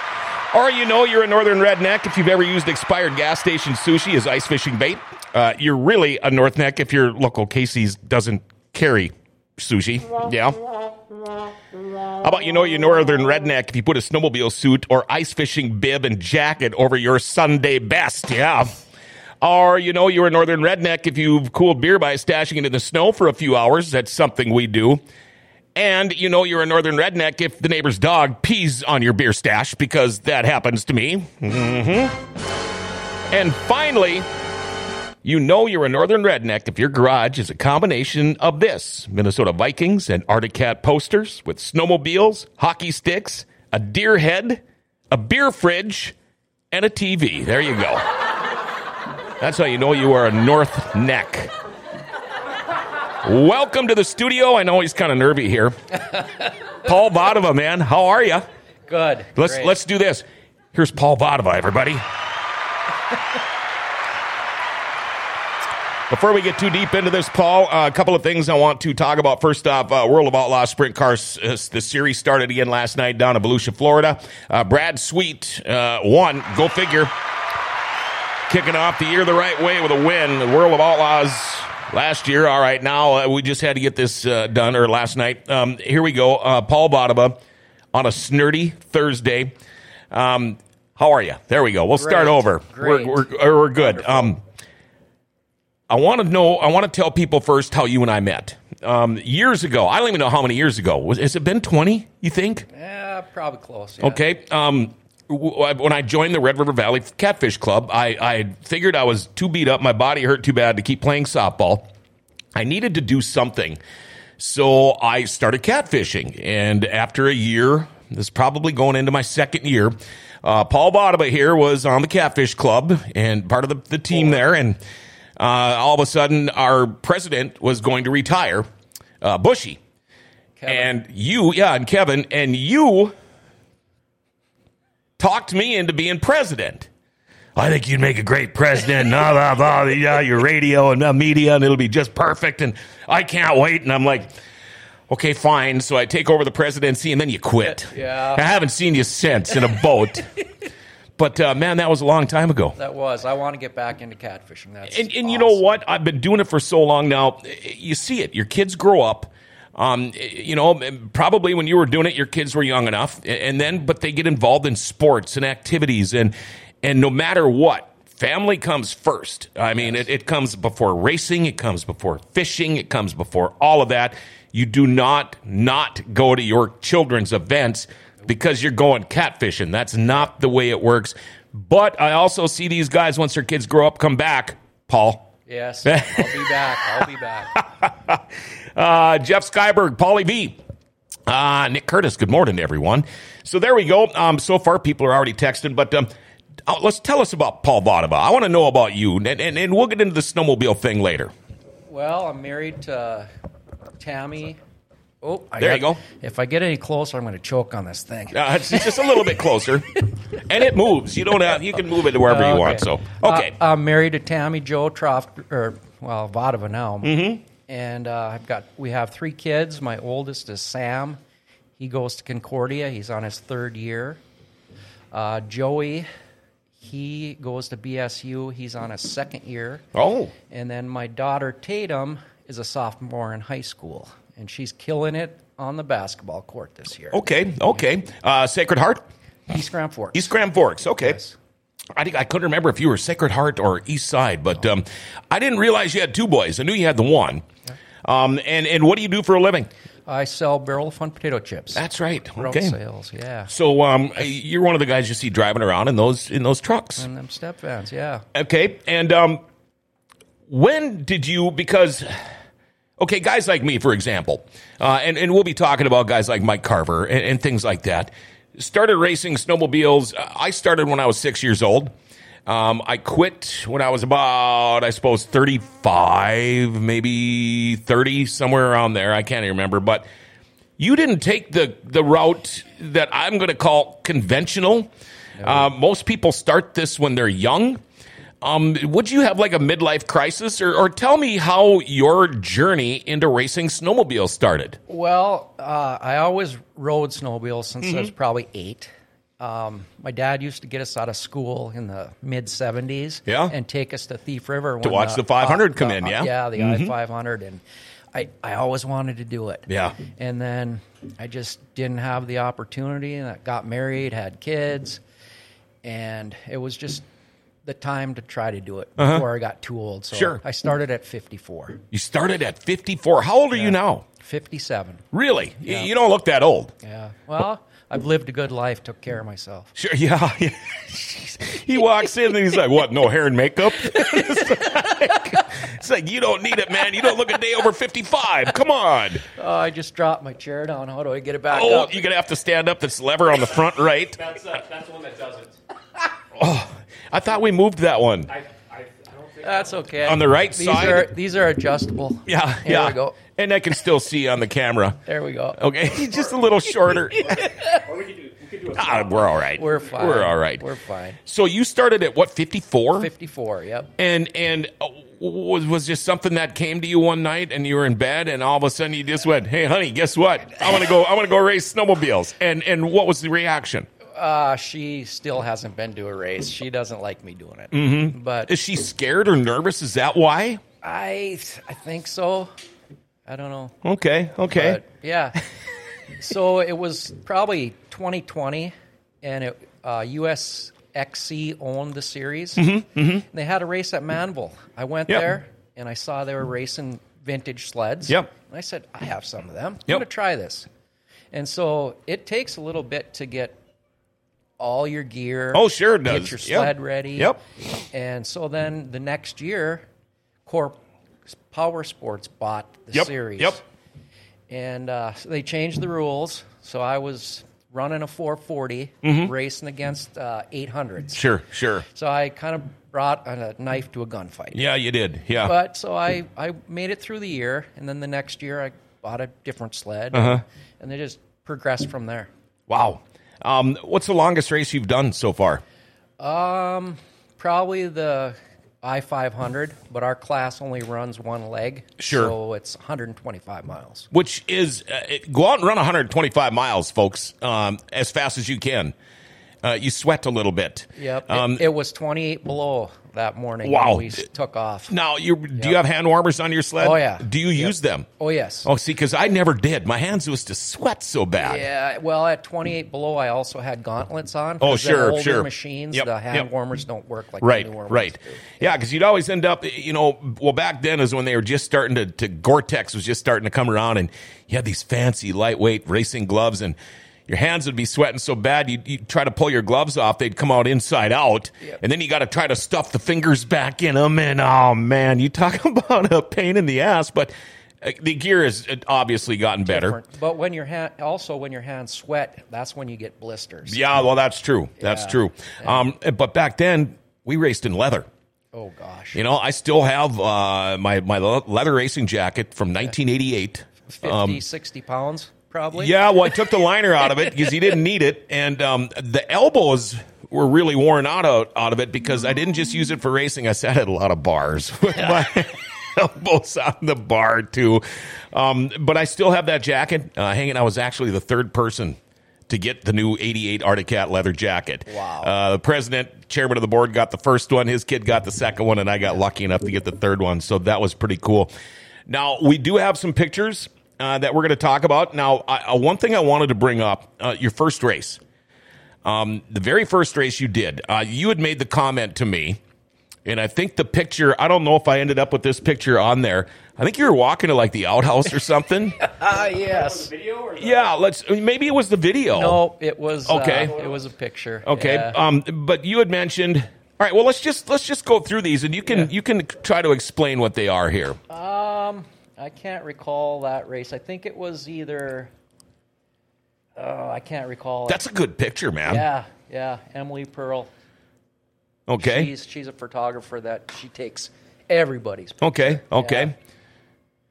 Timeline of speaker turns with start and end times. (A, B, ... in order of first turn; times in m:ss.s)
0:00.5-0:10.6 A
0:12.0-0:18.8 A
0:19.4-0:25.0 A
0:25.7-0:32.2 A
0:33.3-0:34.2 A
0:35.2-0:46.2 A
0:46.7-0:48.1 A
0:49.4-0:51.5 A
0:53.2-0:58.4 A
0:58.9-0:59.7 B
0:59.3-1:02.0 A
1:06.1-1:17.1 A
1:18.5-1:27.4 A
1:27.9-1:29.5 A
1:30.1-1:34.4 A
1:31.9-1:34.4 B
1:35.9-1:42.7 A
1:42.7-1:44.2 B
1:44.0-1:51.9 A
1:52.5-1:53.8 A
1:54.4-2:04.8 A
2:05.4-2:08.6 A
2:09.2-2:09.8 A
2:10.6-2:10.9 B
2:10.7-2:13.1 A
2:15.2-2:16.9 A
2:17.6-2:24.3 A
2:25.1-2:30.4 A
2:27.6-2:28.4 B
2:31.2-2:32.8 A
2:32.8-2:35.6 B
2:34.9-3:05.3 A
3:05.5-3:07.6 B
3:05.8-3:10.6 A
3:11.3-3:16.1 A
3:16.6-3:21.3 A
3:21.9-3:23.3 B
3:24.0-3:24.6 B
3:25.2-3:29.1 B
3:25.6-3:26.0 A
3:28.3-3:33.5 A
3:32.2-3:41.2 B
3:37.0-3:37.4 A
3:41.8-3:44.2 B
3:45.1-3:46.1 B
3:46.8-3:49.8 B
3:49.9-3:50.3 A
3:50.5-3:57.2 B
3:57.1-3:59.0 A
3:59.5-4:01.4 B
4:00.1-4:01.2 A
4:02.0-4:07.4 A
4:08.0-4:09.7 A
4:10.1-4:13.5 B
4:11.7-4:12.8 A
4:13.5-4:17.1 A
4:17.0-4:18.2 B
4:18.3-4:19.4 A
4:20.5-4:22.2 A
4:23.0-4:31.9 A
4:32.4-4:40.0 A
4:40.8-4:47.8 A
4:48.4-4:54.8 A
4:54.9-5:07.6 B
4:57.8-4:58.1 A
5:03.3-5:03.5 A
5:04.8-5:06.9 A
5:08.1-5:15.0 B
5:09.7-5:10.0 A
5:15.8-5:17.0 B
5:17.6-5:21.8 B
5:19.0-5:19.2 A
5:20.1-5:20.4 A
5:21.9-5:24.0 A
5:23.5-5:25.0 B
5:25.1-5:26.7 A
5:26.8-5:29.7 B
5:29.7-5:39.2 A
5:34.0-5:35.4 B
5:39.3-5:42.0 B
5:41.5-5:44.2 A
5:44.1-5:45.6 C
5:46.3-5:48.3 A
5:48.3-5:49.9 C
5:49.4-5:53.2 B
5:50.0-5:51.1 A
5:52.2-5:55.0 A
5:55.0-5:55.6 B
5:55.5-5:57.5 A
5:56.9-5:57.8 B
5:57.6-5:59.6 C
5:58.7-6:00.6 A
5:59.5-6:01.2 B
6:01.2-6:03.1 A
6:02.9-6:03.9 B
6:04.0-6:13.9 A
6:14.1-6:18.5 B
6:17.7-6:20.6 A
6:20.8-6:22.5 B
6:23.3-6:23.8 B
6:23.8-6:24.8 A
6:24.5-6:25.4 B
6:26.2-6:40.7 B
6:32.6-6:33.2 A
6:41.3-6:43.6 B
6:44.6-6:47.4 B
6:45.5-6:47.4 A
6:47.9-6:49.8 B
6:50.4-6:50.8 B
6:51.3-6:53.6 B
6:52.9-6:53.6 A
6:54.5-7:01.2 B
6:59.0-6:59.3 A
7:01.1-7:01.8 A
7:01.9-7:04.6 B
7:04.5-7:05.5 A
7:05.4-7:12.3 B
7:10.1-7:10.4 A
7:12.7-7:15.6 A
7:16.2-7:24.1 B
7:22.0-7:22.3 A
7:24.1-7:28.9 A
7:29.6-7:31.6 A
7:31.0-7:34.9 B
7:33.6-7:34.2 A
7:34.9-7:38.1 A
7:36.8-7:38.7 B
7:38.6-7:41.6 A
7:41.4-7:48.7 B
7:44.6-7:46.5 A
7:47.4-7:56.8 A
7:57.3-8:10.0 A
8:09.6-8:13.8 B
8:13.6-8:18.1 A
8:14.8-8:15.8 B
8:18.5-8:19.2 B
8:19.1-8:24.4 A
8:23.9-8:25.9 B
8:25.7-8:51.5 A
8:44.9-8:45.3 B
8:52.1-8:58.2 A
8:59.0-9:02.6 A
9:03.2-9:09.0 A
9:09.0-9:10.1 B
9:09.3-9:10.9 C
9:10.6-9:12.6 A
9:12.3-9:15.2 B
9:13.2-9:13.7 A
9:13.5-9:14.0 C
9:14.6-9:21.2 A
9:21.3-9:25.3 B
9:26.8-9:28.0 B
9:27.9-9:29.0 A
9:28.8-9:30.7 B
9:31.9-9:32.3 A
9:32.0-9:36.3 B
9:35.4-9:36.3 A